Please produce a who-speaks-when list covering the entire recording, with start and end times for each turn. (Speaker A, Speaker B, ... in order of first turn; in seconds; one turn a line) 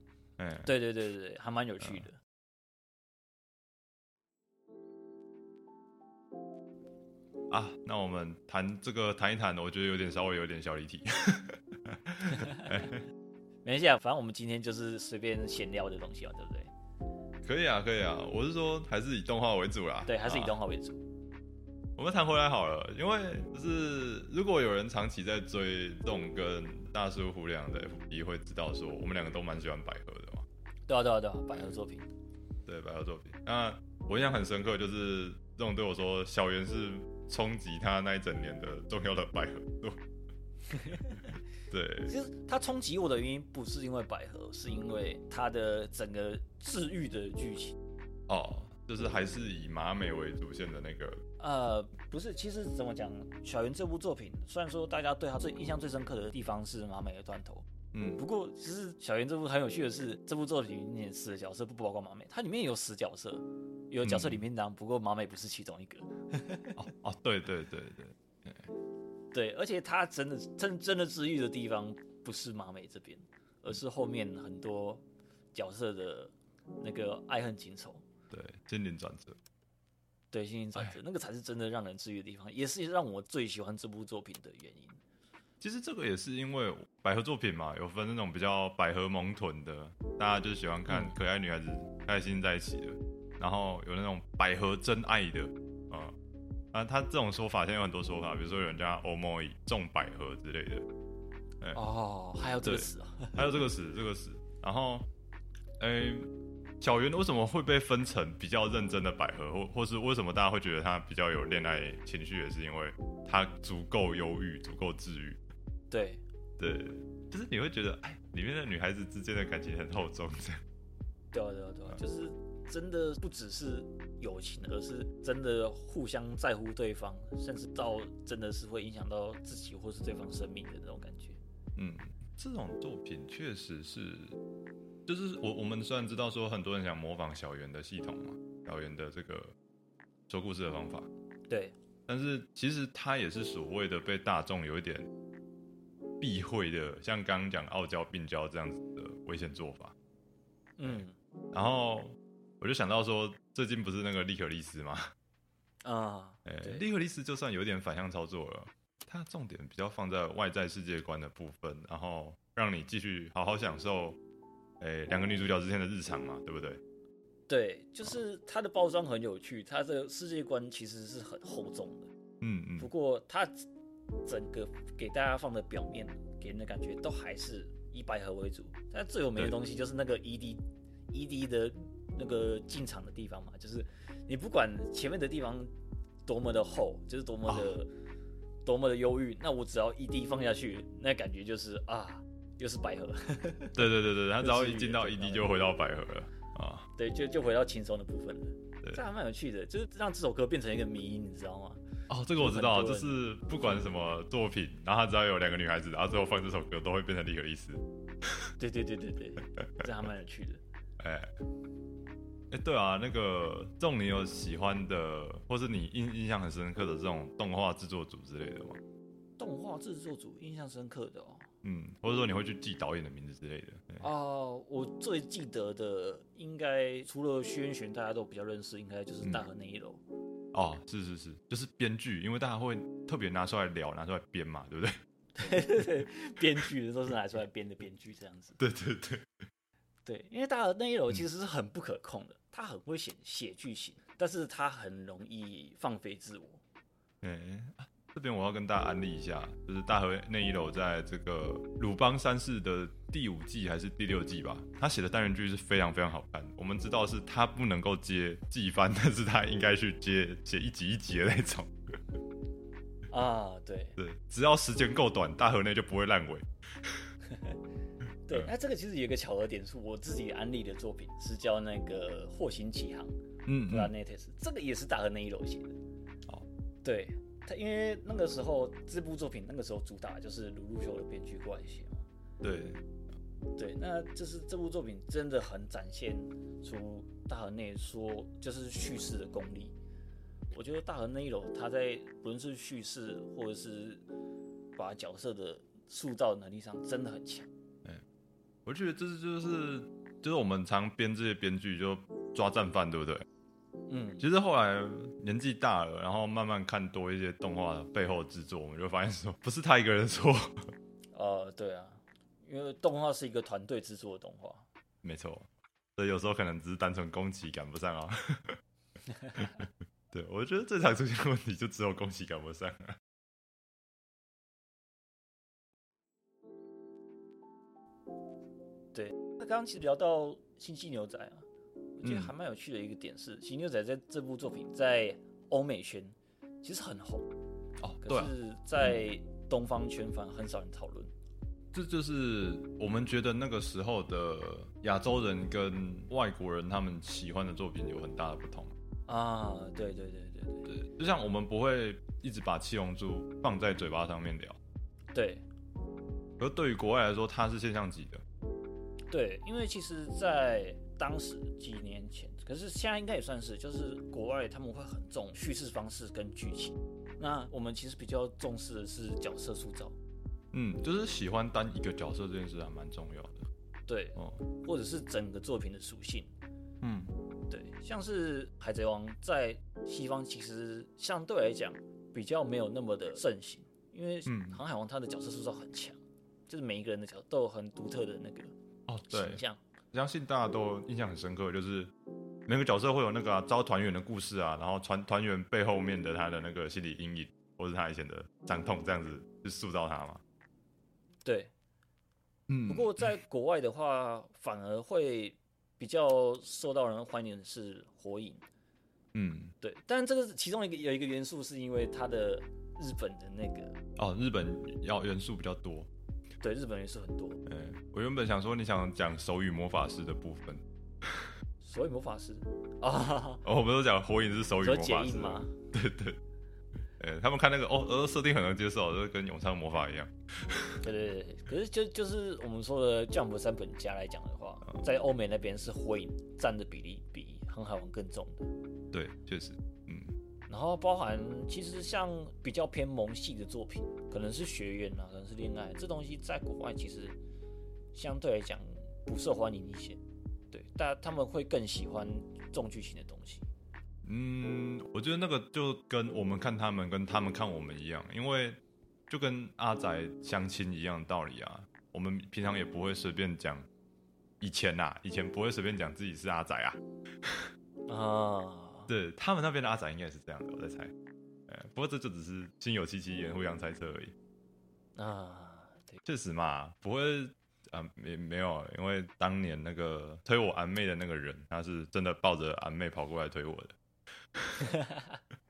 Speaker A: 0.4-0.7
Speaker B: 0.6-2.2
Speaker A: 1.8-2.1
Speaker A: 7.5-13.0
Speaker B: 12.3-12.7
Speaker B: 13.6-16.7
Speaker A: 17.4-20.6
Speaker B: 20.1-21.0
Speaker A: 22.0-30.4
Speaker B: 30.9-32.1
Speaker A: 32.6-40.0
Speaker B: 40.7-41.2
Speaker A: 41.7-42.1
Speaker B: 42.1-47.8
Speaker A: 48.3-51.2
Speaker B: 51.4-66.8
Speaker A: 57.9-58.2
Speaker A: 64.0-64.4
Speaker A: 66.8-68.7
Speaker B: 69.3-78.0
Speaker A: 78.3-79.4
Speaker B: 80.3-85.0
Speaker A: 85.6-96.1
Speaker B: 90.9-91.2
Speaker A: 96.7-100.8
Speaker B: 101.7-103.6
Speaker A: 102.6-105.1
Speaker A: 105.8-106.3
Speaker A: 106.8-115.4
Speaker B: 115.9-116.2
Speaker A: 116.6-120.6
Speaker B: 121.3-131.4
Speaker A: 131.8-134.3
Speaker A: 135.1-139.5
Speaker A: 140.3-141.1
Speaker B: 141.5-141.7
Speaker A: 142.1-145.1
Speaker A: 146.2-149.9
Speaker B: 150.8-151.2
Speaker A: 150.8-155.1
Speaker B: 155.8-156.8
Speaker A: 156.4-164.2
Speaker A: 164.8-166.8
Speaker B: 167.5-172.1
Speaker A: 172.4-172.9
Speaker B: 172.8-173.7
Speaker B: 174.2-185.7
Speaker B: 186.2-187.9
Speaker A: 187.5-187.7
Speaker B: 188.6-195.5
Speaker A: 193.7-196.9
Speaker B: 196.9-201.8
Speaker A: 202.1-207.8
Speaker B: 202.4-203.2
Speaker B: 208.6-210.6
Speaker A: 211.0-211.3
Speaker A: 212.5-218.8
Speaker B: 219.4-221.5
Speaker A: 221.6-224.1
Speaker B: 224.0-230.0
Speaker A: 230.5-235.0
Speaker B: 235.3-238.6
Speaker A: 238.6-239.3
Speaker B: 240.0-246.6
Speaker A: 247.2-261.7
Speaker B: 263.1-264.0
Speaker A: 264.0-267.1
Speaker B: 267.3-267.6
Speaker B: 268.3-273.1
Speaker A: 273.4-273.9
Speaker B: 273.7-275.8
Speaker B: 276.8-282.1
Speaker A: 282.4-282.8
Speaker B: 283.6-289.7
Speaker B: 290.5-294.0
Speaker B: 294.8-297.5
Speaker A: 298.6-303.2
Speaker B: 303.9-304.2
Speaker A: 304.2-310.7
Speaker B: 311.1-314.6
Speaker A: 315.0-318.6
Speaker A: 319.4-323.0
Speaker B: 328.9-331.4
Speaker B: 332.0-337.3
Speaker A: 332.0-332.3
Speaker A: 337.8-338.3
Speaker B: 338.0-341.1
Speaker A: 341.7-348.7
Speaker B: 349.1-350.7
Speaker A: 350.7-354.6
Speaker B: 355.1-355.4
Speaker A: 356.4-358.2
Speaker B: 359.1-369.9
Speaker A: 370.5-373.5
Speaker B: 373.9-376.3
Speaker A: 376.8-377.1
Speaker B: 377.5-388.5
Speaker A: 384.2-384.6
Speaker A: 388.9-389.4
Speaker B: 389.1-389.6
Speaker A: 389.9-391.9
Speaker A: 392.5-400.2
Speaker B: 401.2-401.5
Speaker A: 402.5-403.0
Speaker B: 402.6-408.4
Speaker A: 409.1-409.5
Speaker B: 409.6-413.8
Speaker A: 414.0-415.9
Speaker B: 416.4-417.4
Speaker A: 417.4-421.3
Speaker B: 421.6-423.4
Speaker A: 423.4-426.2
Speaker B: 424.6-425.5
Speaker A: 427.0-430.8
Speaker B: 430.8-438.5
Speaker A: 438.9-440.1
Speaker B: 440.5-447.2
Speaker B: 447.9-450.0
Speaker B: 450.5-453.4
Speaker A: 454.0-463.7
Speaker A: 464.4-467.5
Speaker B: 467.9-468.9
Speaker A: 468.9-470.9
Speaker A: 471.5-474.1
Speaker B: 474.9-476.0
Speaker A: 476.0-483.7
Speaker B: 484.6-485.2